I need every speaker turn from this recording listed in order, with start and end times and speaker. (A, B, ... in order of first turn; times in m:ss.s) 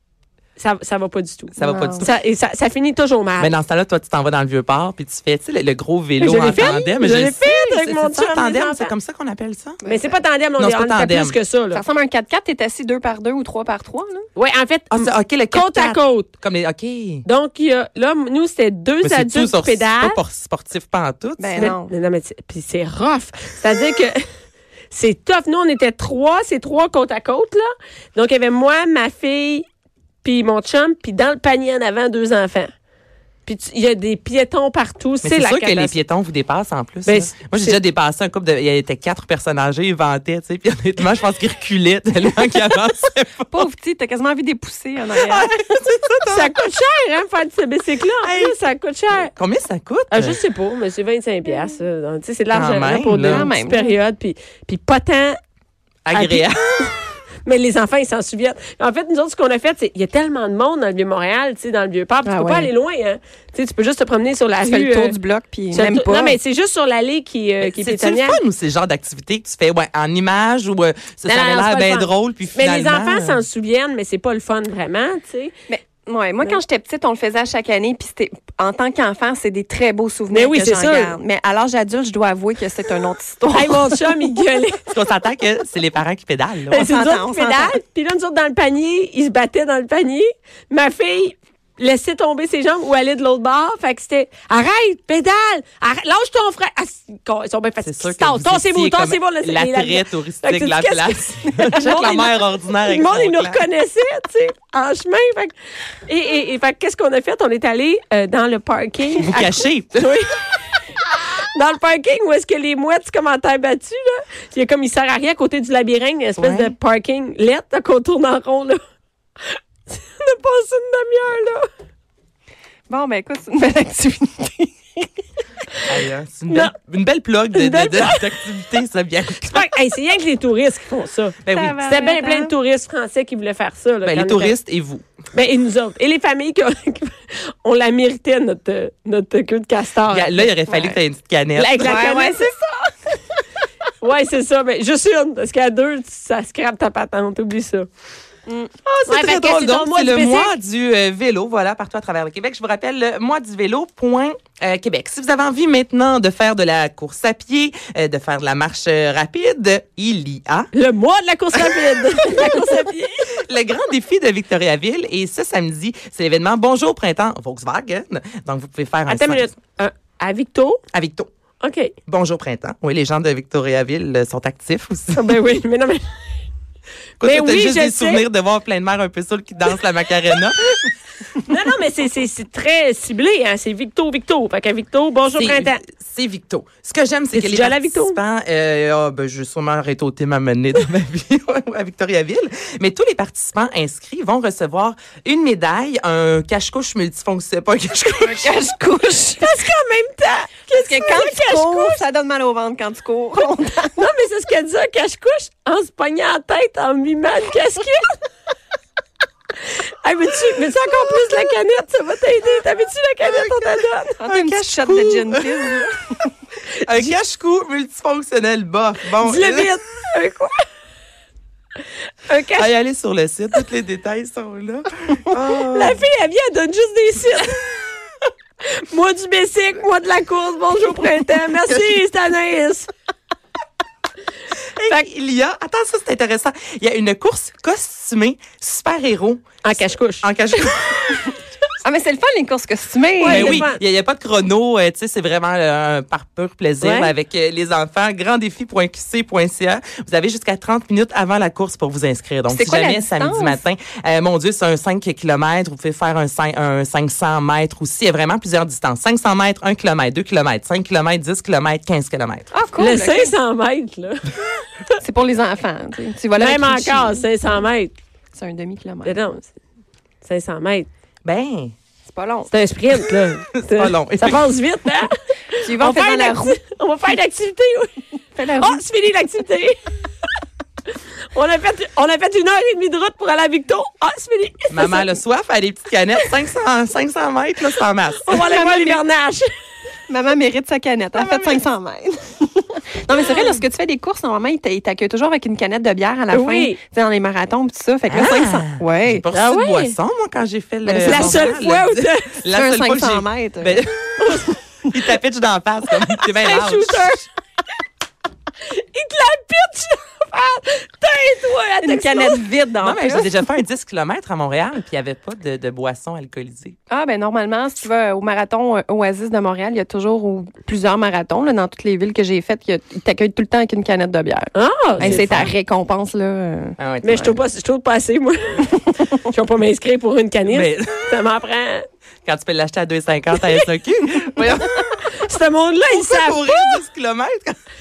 0:00.6-0:03.5 A
0:01.6-0:02.2 B
0:01.6-0:02.0 C
0:03.4-0:09.8 B
0:06.2-0:08.9 A
0:09.8-0:10.2 C
0:09.8-0:11.8 A
0:10.6-0:11.4 B
0:11.7-0:14.2 C
0:14.4-0:16.3 A
0:14.9-0:17.2 B
0:17.2-0:20.2 A
0:19.0-0:21.7 B
0:21.4-0:21.9 C
0:21.5-0:24.3 A
0:24.9-0:29.6 A
0:30.2-0:32.7 A
0:33.4-0:36.0 A
0:35.2-0:43.7 B
0:37.0-0:37.8 A
0:43.5-0:45.6 C
0:45.1-0:46.5 B
0:46.3-0:49.3 A
0:48.2-0:48.6 B
0:49.2-0:50.4 B
0:50.1-0:55.4 A
0:52.5-0:53.5 B
0:53.3-0:54.0 C
0:56.0-0:56.8 B
0:56.1-1:05.2 A
1:02.2-1:02.7 C
1:04.6-1:06.4 C
1:05.7-1:08.4 A
1:07.6-1:13.4 B
1:11.2-1:15.5 A
1:15.7-1:24.2 C
1:20.3-1:21.2 A
1:23.5-1:24.8 A
1:24.9-1:26.8 B
1:26.7-1:27.8 C
1:26.7-1:45.5 A
1:37.8-1:43.6 B
1:46.0-1:58.8 A
1:49.2-1:50.0 B
1:56.4-1:56.7 B
1:59.5-2:01.7 A
2:02.9-2:05.1 C
2:05.9-2:09.7 B
2:07.5-2:08.4 A
2:09.4-2:14.6 A
2:11.4-2:11.8 B
2:11.5-2:12.5 C
2:14.0-2:15.0 B
2:15.3-2:20.5 A
2:20.1-2:21.9 B
2:20.7-2:21.0 C
2:21.6-2:22.5 A
2:21.7-2:22.9 C
2:24.0-2:27.9 A
2:28.8-2:40.7 B
2:29.1-2:30.6 A
2:40.7-2:43.3 A
2:41.6-2:42.6 B
2:43.5-2:49.5 B
2:49.1-2:50.8 A
2:50.9-2:51.3 B
2:51.6-2:51.9 A
2:52.1-2:55.4 B
2:55.1-2:56.0 A
2:57.2-3:00.9 B
2:57.2-2:58.2 A
3:01.4-3:05.8 A
3:05.3-3:18.5 B
3:07.3-3:08.2 A
3:18.2-3:19.5 C
3:19.4-3:22.0 A
3:20.7-3:24.0 C
3:24.0-3:28.2 A
3:29.8-3:34.2 A
3:33.2-3:35.7 B
3:34.2-3:36.3 C
3:36.8-3:39.7 B
3:39.2-3:40.5 A
3:42.3-3:42.7 A
3:42.6-3:46.0 B
3:45.7-3:47.7 A
3:48.6-3:52.9 A
3:54.8-3:59.6 B
3:59.6-4:00.3 A
4:00.2-4:01.3 B
4:01.8-4:03.6 C
4:03.2-4:03.8 A
4:03.2-4:22.5 B
4:06.8-4:07.1 A
4:12.5-4:13.6 C
4:22.5-4:23.4 C
4:22.8-4:24.4 A
4:25.0-4:27.3 C
4:26.3-4:27.9 A
4:28.3-4:29.3 C
4:29.0-4:29.5 A
4:30.2-4:30.9 A
4:31.2-4:31.7 B
4:32.0-4:32.5 C
4:32.5-4:38.0 A
4:33.6-4:34.4 B
4:35.6-4:36.6 C
4:38.4-4:38.8 C
4:38.5-4:39.8 A
4:40.9-4:45.1 A
4:44.7-4:48.3 B
4:48.2-4:49.5 A
4:48.3-4:49.0 C
4:50.1-4:59.2 C
4:51.1-4:51.6 B
4:56.3-4:56.8 A
4:58.1-5:07.2 B
4:59.3-4:59.9 A
5:00.8-5:01.4 C
5:01.0-5:02.4 A
5:02.5-5:03.8 C
5:04.2-5:04.5 A
5:06.4-5:07.2 A
5:08.7-5:12.5 A
5:11.8-5:13.3 C
5:12.8-5:16.7 B
5:16.9-5:27.3 C
5:24.5-5:25.3 A
5:25.0-5:25.5 B
5:26.8-5:27.4 B
5:27.0-5:31.8 A
5:30.5-5:31.2 B
5:32.2-5:35.0 B
5:35.0-5:36.8 A
5:35.9-5:37.6 B